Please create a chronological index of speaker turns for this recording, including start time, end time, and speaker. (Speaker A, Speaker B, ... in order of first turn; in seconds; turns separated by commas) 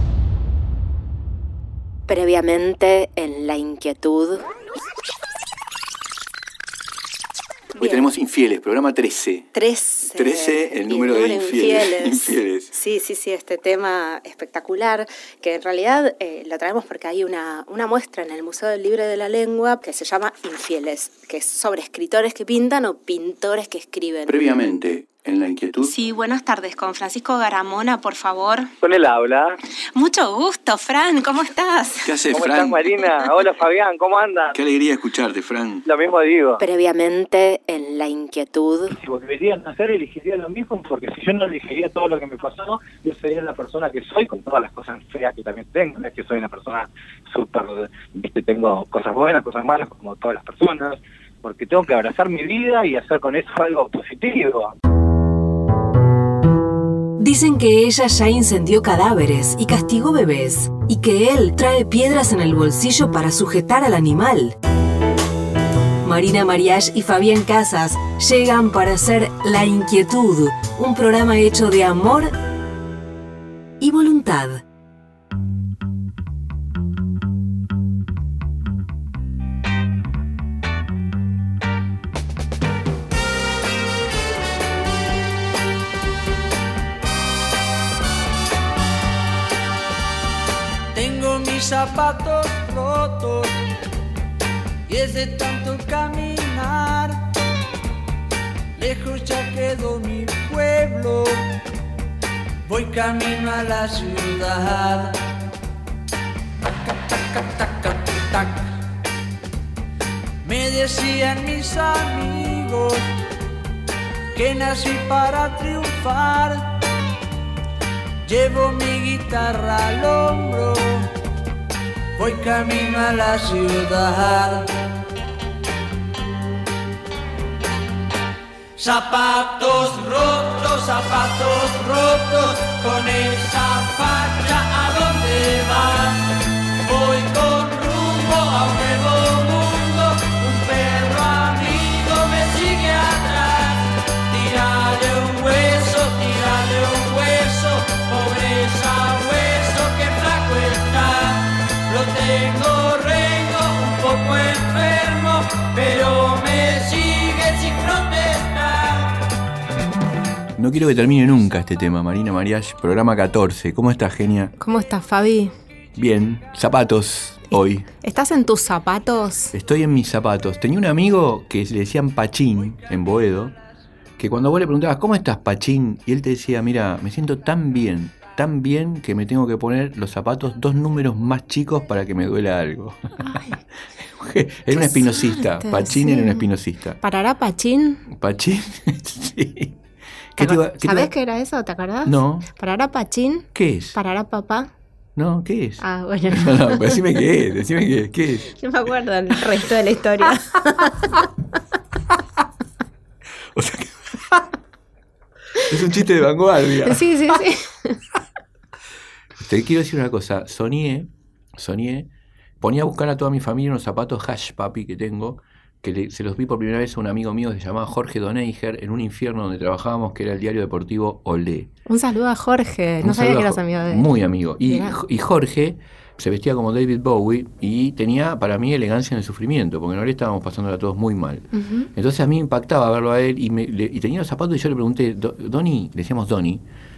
Speaker A: 2.1-4.4, Speaker B: 7.7-9.5, Speaker A: 7.8-8.0, Speaker A: 9.5-24.4, Speaker B: 10.1-12.7, Speaker B: 24.2-25.9, Speaker A: 25.8-28.7, Speaker C: 28.8-29.6, Speaker A: 29.9-32.1, Speaker B: 32.0-33.1, Speaker C: 32.3-34.6, Speaker B: 34.5-35.9, Speaker C: 35.8-36.6, Speaker A: 36.6-39.0, Speaker C: 38.9-54.7, Speaker D: 57.2-64.5, Speaker D: 66.0-72.3, Speaker D: 73.8-74.6, Speaker E: 90.9-93.6, Speaker E: 94.9-97.3, Speaker E: 98.8-101.4, Speaker E: 102.7-105.1, Speaker E: 107.1-108.7, Speaker E: 110.4-113.1, Speaker E: 114.3-116.8, Speaker E: 118.2-121.1, Speaker E: 122.2-124.7, Speaker E: 128.8-136.3, Speaker E: 136.8-159.2, Speaker B: 160.6-164.5, Speaker A: 164.6-165.5, Speaker B: 165.9-167.9, Speaker A: 168.0-169.5, Speaker B: 169.5-173.5, Speaker B: 174.2-183.4, Speaker A: 183.2-183.6, Speaker B: 184.1-187.0, Speaker A: 184.7-186.5, Speaker A: 187.0-188.1, Speaker B: 188.1-189.8, Speaker B: 190.3-191.1, Speaker A: 190.4-194.7, Speaker B: 192.0-192.5, Speaker B: 193.5-194.0, Speaker B: 195.2-198.6, Speaker A: 195.8-197.2, Speaker A: 198.6-201.3, Speaker B: 203.5-204.4, Speaker B: 205.6-207.1, Speaker A: 206.8-208.0, Speaker B: 209.4-212.1, Speaker B: 212.6-221.7, Speaker A: 221.9-224.9, Speaker B: 223.0-236.6, Speaker A: 231.5-231.9